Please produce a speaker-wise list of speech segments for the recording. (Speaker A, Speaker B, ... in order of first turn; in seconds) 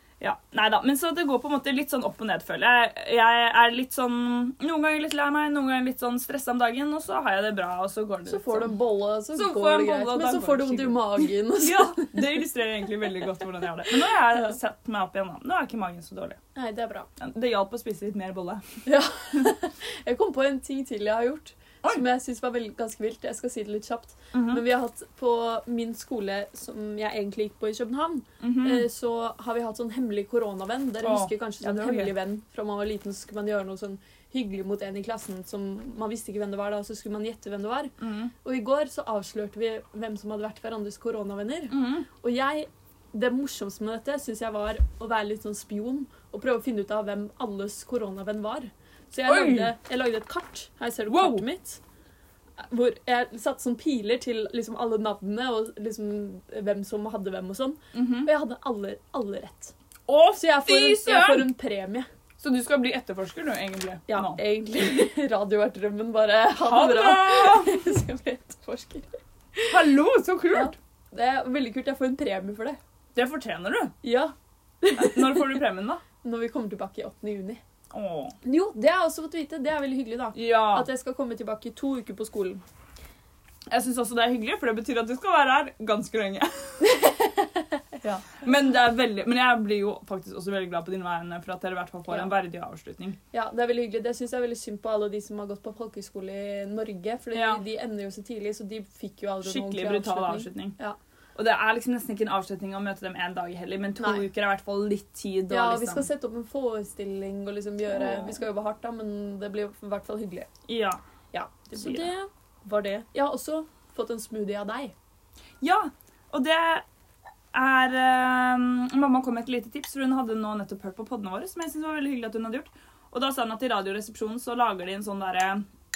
Speaker A: 0.2-8.7, 9.3-16.4, 17.2-18.6, 24.3-24.6, 28.4-28.9, 31.0-32.1, 38.0-38.3, 41.7-42.1, 49.3-49.7, 51.1-51.4, 57.9-58.3, 60.1-61.5, 62.4-64.4, 66.6-68.0, 69.7-70.8, 73.2-73.9, 75.0-76.0, 77.9-78.4, 80.3-80.9, 83.7-86.9, 88.0-93.2, 97.3-97.6, 99.5-100.8, 101.3-106.1, 107.9-108.4, 110.7-111.0, 111.5-112.1, 115.6-116.8, 117.5-125.6
Speaker B: 8.3-12.2, 16.6-17.1, 18.9-37.9, 38.4-51.8, 52.6-59.7, 60.4-62.1, 64.1-69.8, 70.5-72.8, 74.0-75.6, 76.2-77.6, 78.4-82.6, 86.8-87.5, 93.3-101.0, 104.0-104.2, 105.5-110.5, 111.3-114.9